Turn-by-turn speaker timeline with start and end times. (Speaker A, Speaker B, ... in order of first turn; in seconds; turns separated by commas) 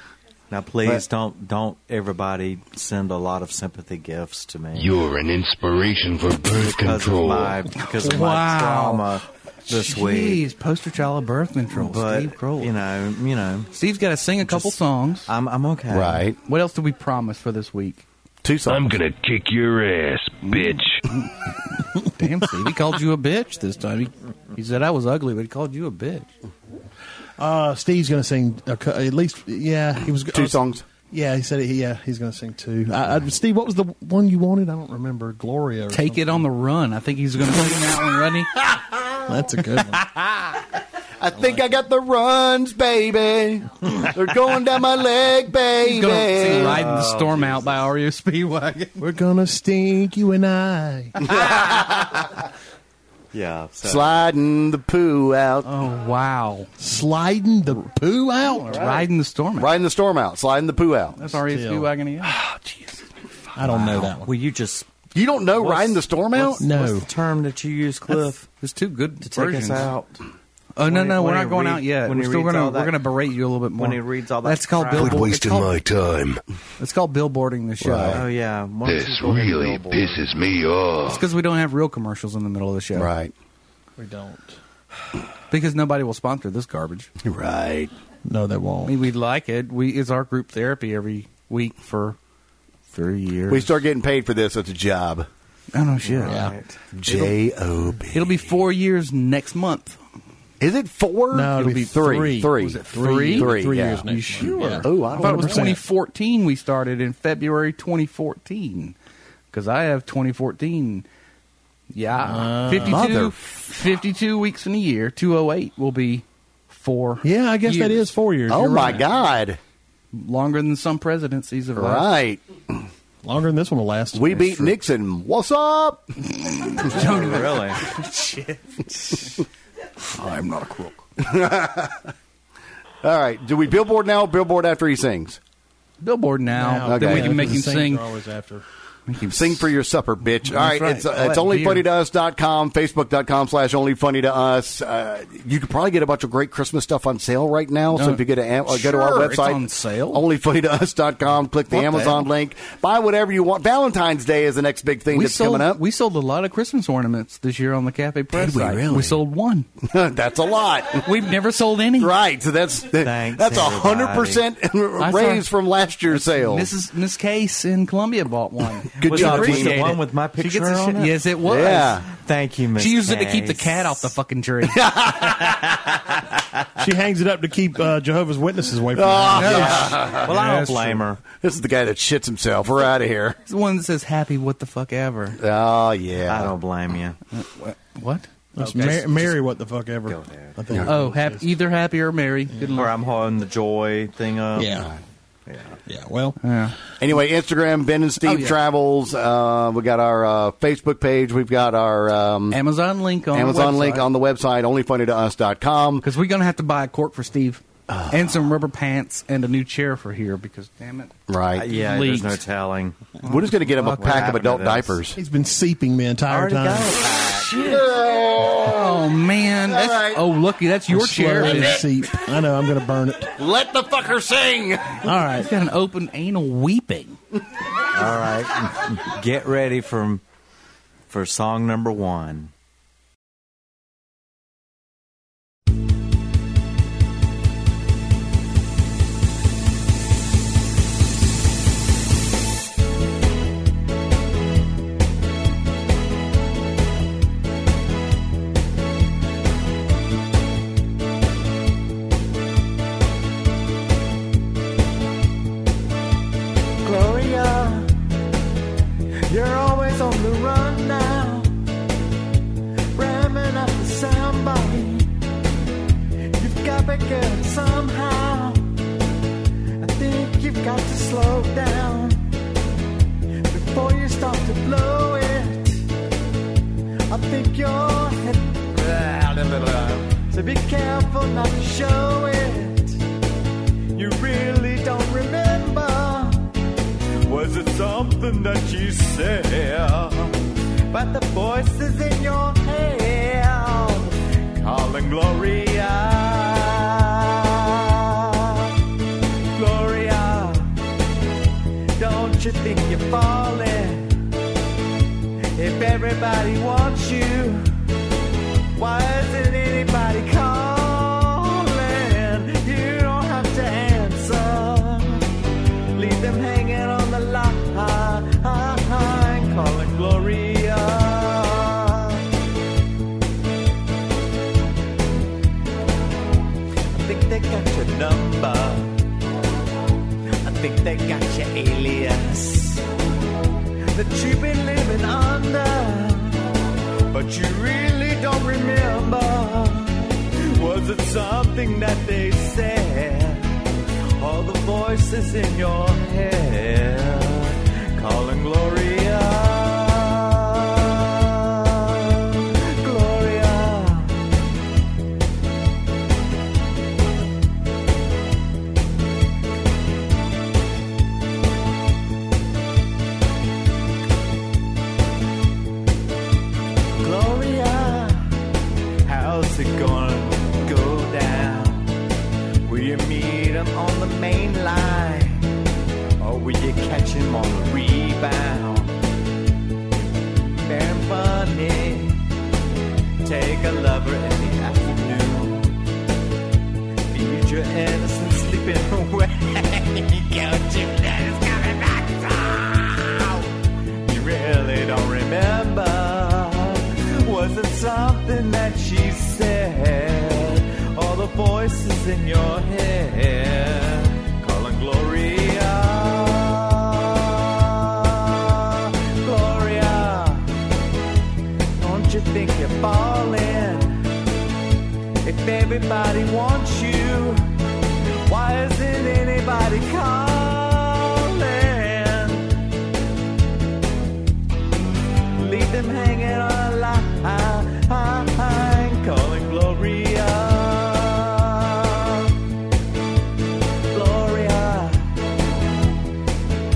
Speaker A: 0.5-5.0, Speaker B: 4.8-7.7, Speaker A: 6.6-10.4, Speaker C: 7.8-9.2, Speaker C: 9.7-12.8, Speaker A: 11.7-13.7, Speaker C: 13.8-15.3, Speaker A: 14.4-16.2, Speaker D: 15.9-16.4, Speaker C: 16.4-18.1, Speaker D: 18.4-18.9, Speaker B: 18.7-21.0, Speaker C: 22.0-26.3, Speaker E: 27.4-36.5, Speaker D: 30.3-30.9, Speaker C: 35.9-38.6, Speaker E: 39.2-40.1, Speaker D: 41.2-46.9, Speaker C: 45.9-49.0, Speaker A: 46.4-47.8, Speaker E: 49.0-51.2, Speaker D: 51.2-52.3, Speaker A: 51.3-52.2, Speaker A: 53.3-54.2, Speaker D: 53.8-55.7, Speaker C: 55.6-56.7, Speaker E: 56.8-58.9, Speaker C: 58.4-59.7, Speaker A: 58.7-59.1, Speaker D: 59.6-61.2, Speaker C: 61.2-62.4, Speaker E: 61.5-61.9, Speaker D: 62.2-63.0, Speaker E: 63.5-64.3, Speaker A: 63.7-64.9, Speaker D: 65.2-66.6, Speaker A: 65.6-68.5, Speaker E: 66.6-67.1, Speaker C: 68.6-69.9, Speaker A: 69.2-70.2, Speaker C: 70.8-75.8, Speaker A: 70.8-73.1, Speaker A: 73.7-75.4, Speaker B: 74.9-76.4, Speaker C: 76.8-78.2, Speaker D: 77.8-78.2, Speaker A: 78.1-80.4, Speaker B: 78.9-81.3, Speaker C: 81.0-83.1, Speaker D: 82.9-83.3, Speaker E: 84.0-84.6, Speaker C: 85.5-87.1, Speaker D: 87.2-87.9, Speaker E: 88.3-89.0, Speaker C: 88.8-92.2, Speaker C: 92.9-93.7, Speaker D: 93.5-95.3, Speaker C: 95.7-96.5, Speaker A: 96.0-96.8, Speaker E: 96.2-96.5, Speaker D: 97.0-98.5, Speaker C: 98.1-100.0, Speaker D: 100.6-105.8, Speaker E: 101.3-105.8, Speaker C: 101.6-101.9, Speaker C: 102.5-109.0, Speaker C: 109.5-111.0, Speaker C: 111.9-118.1, Speaker E: 112.2-113.1, Speaker D: 112.8-113.3, Speaker E: 117.2-119.1, Speaker D: 118.5-119.6, Speaker C: 120.1-122.1, Speaker D: 121.8-122.4, Speaker E: 123.2-124.8, Speaker D: 124.1-126.1, Speaker C: 126.2-129.4, Speaker A: 126.8-127.8, Speaker C: 130.1-131.0, Speaker D: 131.2-132.1, Speaker D: 133.0-135.4, Speaker C: 136.0-138.1, Speaker E: 136.6-138.7, Speaker D: 136.8-137.5, Speaker C: 139.1-139.7, Speaker D: 139.3-155.8, Speaker C: 140.5-141.9, Speaker C: 147.9-150.2, Speaker C: 151.7-152.3, Speaker C: 155.1-159.7, Speaker D: 158.3-159.2, Speaker D: 159.8-161.1, Speaker C: 161.0-162.1, Speaker D: 162.0-166.7, Speaker A: 163.0-164.4, Speaker C: 165.0-165.5, Speaker C: 166.1-172.1, Speaker A: 169.0-174.1, Speaker D: 169.0-169.9, Speaker D: 171.4-172.1, Speaker C: 172.8-174.9, Speaker D: 174.7-175.9, Speaker A: 175.4-175.9, Speaker E: 176.8-179.8, Speaker D: 178.9-180.3, Speaker C: 179.4-181.1, Speaker A: 179.4-181.2, Speaker D: 181.4-183.4, Speaker C: 183.5-185.4, Speaker D: 185.4-186.6, Speaker A: 186.3-187.2, Speaker C: 187.3-189.3, Speaker E: 188.6-191.5, Speaker A: 190.1-190.6, Speaker C: 190.9-193.0, Speaker A: 192.7-194.8, Speaker E: 194.6-194.9, Speaker D: 194.7-195.0, Speaker A: 195.5-195.8, Speaker E: 195.9-196.4, Speaker C: 196.4-196.8, Speaker D: 197.0-202.6, Speaker C: 198.2-198.6, Speaker C: 202.5-204.1, Speaker D: 203.3-206.1, Speaker C: 206.0-211.1, Speaker D: 207.9-208.2, Speaker D: 211.3-211.7, Speaker A: 211.6-213.0, Speaker C: 211.7-212.4, Speaker D: 213.2-215.2, Speaker C: 213.3-214.2, Speaker A: 213.8-215.0, Speaker E: 215.2-216.9, Speaker A: 216.3-217.9, Speaker D: 217.3-220.3, Speaker C: 218.6-221.8, Speaker E: 220.9-223.4, Speaker D: 221.5-221.8, Speaker D: 223.4-225.1, Speaker E: 225.0-225.5, Speaker C: 225.4-227.2, Speaker A: 227.9-230.2, Speaker A: 231.1-232.5, Speaker A: 256.8-258.0, Speaker A: 259.3-261.6, Speaker A: 262.9-265.1, Speaker A: 266.3-268.7, Speaker A: 269.8-272.3, Speaker A: 273.5-275.9, Speaker A: 277.1-283.0, Speaker A: 283.9-286.6, Speaker A: 287.2-298.8, Speaker A: 299.5-300.8, Speaker A: 302.0-304.3, Speaker A: 305.5-307.7, Speaker A: 308.8-315.3, Speaker A: 315.9-322.3, Speaker A: 326.9-329.0, Speaker A: 330.4-332.9, Speaker A: 333.9-354.2, Speaker A: 367.0-368.4, Speaker A: 369.1-372.0, Speaker A: 372.6-375.5, Speaker A: 376.2-378.9, Speaker A: 380.3-382.3, Speaker A: 383.2-385.8, Speaker A: 387.1-410.6, Speaker A: 411.8-414.1, Speaker A: 415.2-422.5, Speaker A: 425.4-432.4, Speaker A: 433.9-435.3